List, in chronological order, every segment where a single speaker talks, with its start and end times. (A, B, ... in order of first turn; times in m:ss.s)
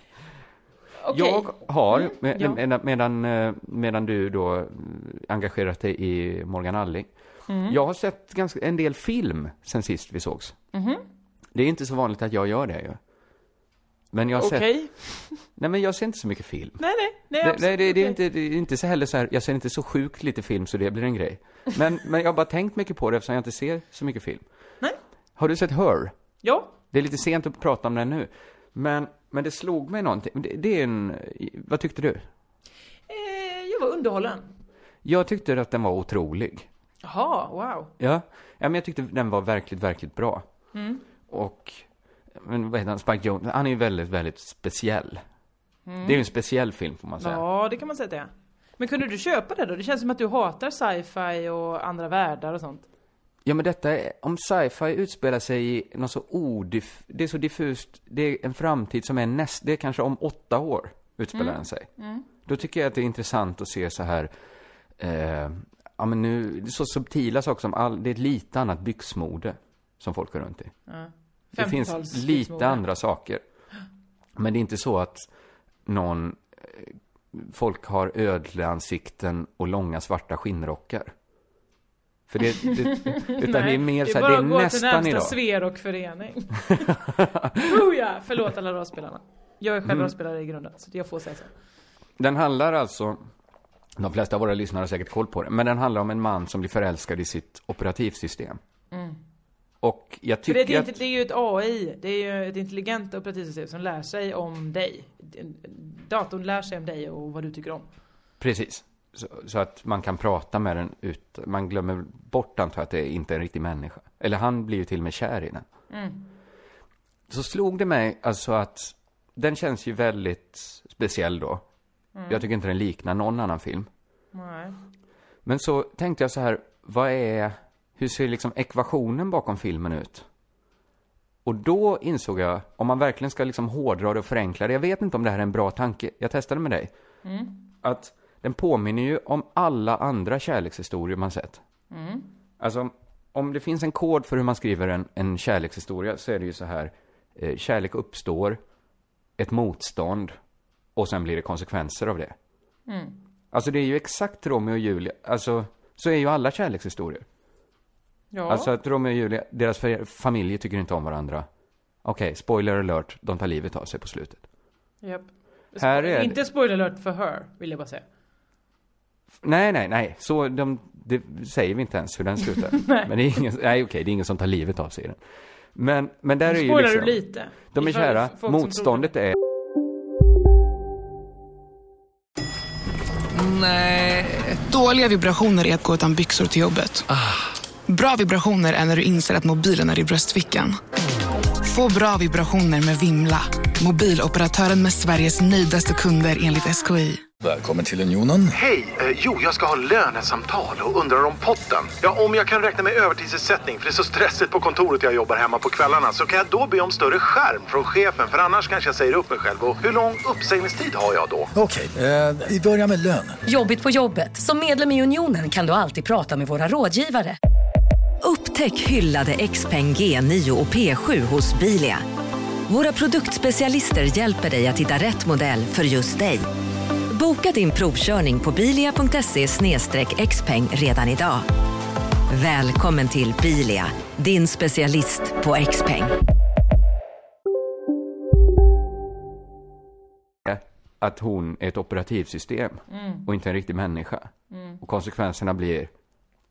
0:01.0-0:02.6 A
0:01.1-0:07.1 B
0:07.5-0:07.8 A
0:07.6-0:10.6 B
0:10.7-0:11.0 A
0:11.5-0:13.0 B
0:14.1-0:14.7 B
0:14.3-0:15.4 A
0:15.6-0:16.8 B
0:16.8-0:18.2 A
0:17.4-0:24.4 B
0:25.4-0:26.1 B
0:26.4-0:26.7 A
0:26.9-0:32.2 B
0:33.1-0:34.4 A
0:35.0-0:36.7 B
0:37.0-0:37.9 A
0:38.0-0:40.5 B
0:40.7-0:41.0 A
0:41.3-0:45.2 B
0:45.9-0:46.2 A
0:46.0-0:47.4 B
0:47.2-0:52.8 A
0:53.4-1:01.9 B
1:01.4-1:02.2 A
1:02.4-1:04.3 B
1:05.0-1:10.7 B
1:10.9-1:12.8 A
1:11.5-1:13.4 B
1:14.4-1:15.3 B
1:15.8-1:21.1 B
1:22.3-1:25.4 B
1:22.6-1:26.9 A
1:27.0-1:27.6 B
1:27.6-1:31.5 A
1:32.2-1:33.3 B
1:34.0-1:38.6 B
1:38.9-1:39.2 A
1:39.8-1:41.0 B
1:40.4-1:47.9 A
1:48.4-1:55.6 B
1:55.9-1:56.2 A
1:57.3-2:01.6 B
2:02.1-2:02.4 A
2:02.3-2:03.9 B
2:04.3-2:04.8 A
2:05.4-2:10.2 B
2:11.4-2:16.9 B
2:17.2-2:17.6 A
2:17.8-2:21.6 B
2:21.9-2:22.3 A
2:22.6-2:28.6 B
2:29.4-2:30.4 B
2:31.0-2:32.3 B
2:32.9-2:33.2 A
2:33.5-2:37.2 B
2:38.3-2:38.7 A
2:38.5-2:41.5 B
2:42.0-2:44.4 B
2:45.0-2:48.0 A
2:45.8-2:46.4 B
2:49.4-2:55.2 B
2:52.7-2:53.1 A
2:55.7-2:57.2 B
2:56.4-2:59.1 A
2:57.7-2:59.4 B
3:03.3-3:07.1 C
3:07.9-3:10.8 C
3:11.6-3:17.2 C
3:17.4-3:18.5 D
3:18.5-3:31.5 E
3:31.5-3:33.4 D
3:33.4-3:37.4 F
3:38.2-3:42.0 G
3:42.7-3:46.4 G
3:47.1-3:51.4 G
3:52.3-3:56.1 G
4:00.4-4:05.9 B
4:02.9-4:03.2 A
4:04.5-4:04.8 A